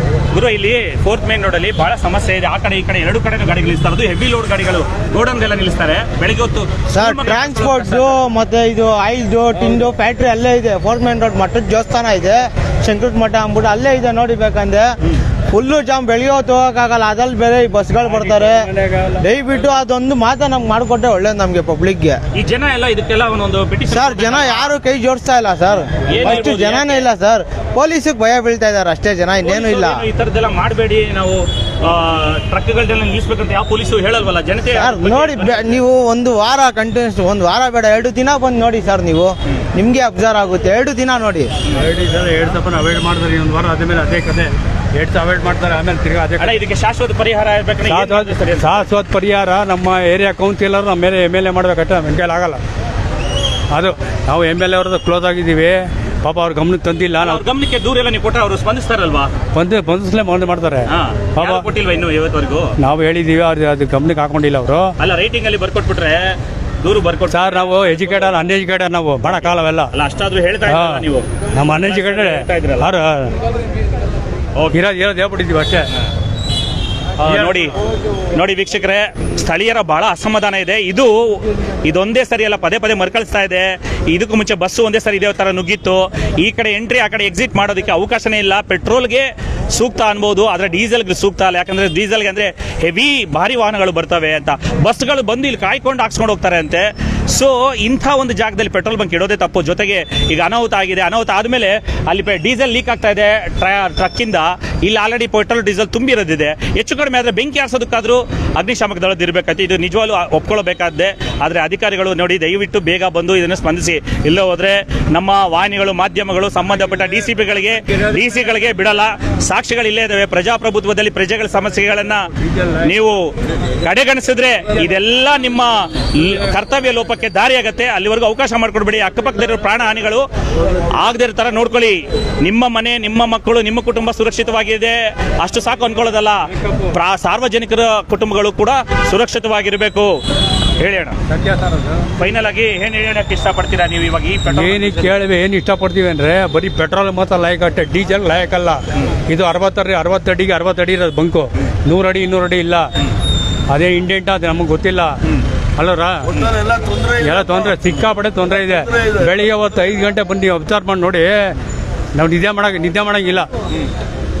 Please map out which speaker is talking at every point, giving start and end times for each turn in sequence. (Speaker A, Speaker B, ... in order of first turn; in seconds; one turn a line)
Speaker A: 0.3-8.1
Speaker B: 6.9-14.9
Speaker B: 15.5-18.7
Speaker C: 18.0-19.2
Speaker B: 19.2-22.2
Speaker A: 22.4-24.7
Speaker B: 23.9-30.0
Speaker A: 26.1-27.1
Speaker A: 29.4-35.8
Speaker B: 34.7-41.5
Speaker C: 41.8-46.5
Speaker A: 46.4-48.9
Speaker C: 47.9-52.6
Speaker C: 53.7-57.4
Speaker A: 57.2-59.3
Speaker C: 59.5-61.6
Speaker A: 60.9-62.7
Speaker C: 62.8-64.9
Speaker A: 65.0-67.9
Speaker C: 67.3-69.9
Speaker A: 69.3-72.9
Speaker C: 70.7-73.3
Speaker C: 74.7-75.8
Speaker A: 77.2-77.7
Speaker C: 77.2-77.5
Speaker A: 78.3-122.2
Speaker A: 122.8-123.3
Speaker A: 123.8-130.2
Speaker A: 130.8-140.1
Speaker C: 136.5-136.9
Speaker A: 140.8-141.2
Speaker C: 141.3-142.1
Speaker A: 142.2-145.1
Speaker C: 144.5-152.9
Speaker C: 153.7-155.2
Speaker C: 155.8-156.4
Speaker C: 157.0-161.5
Speaker C: 162.2-163.5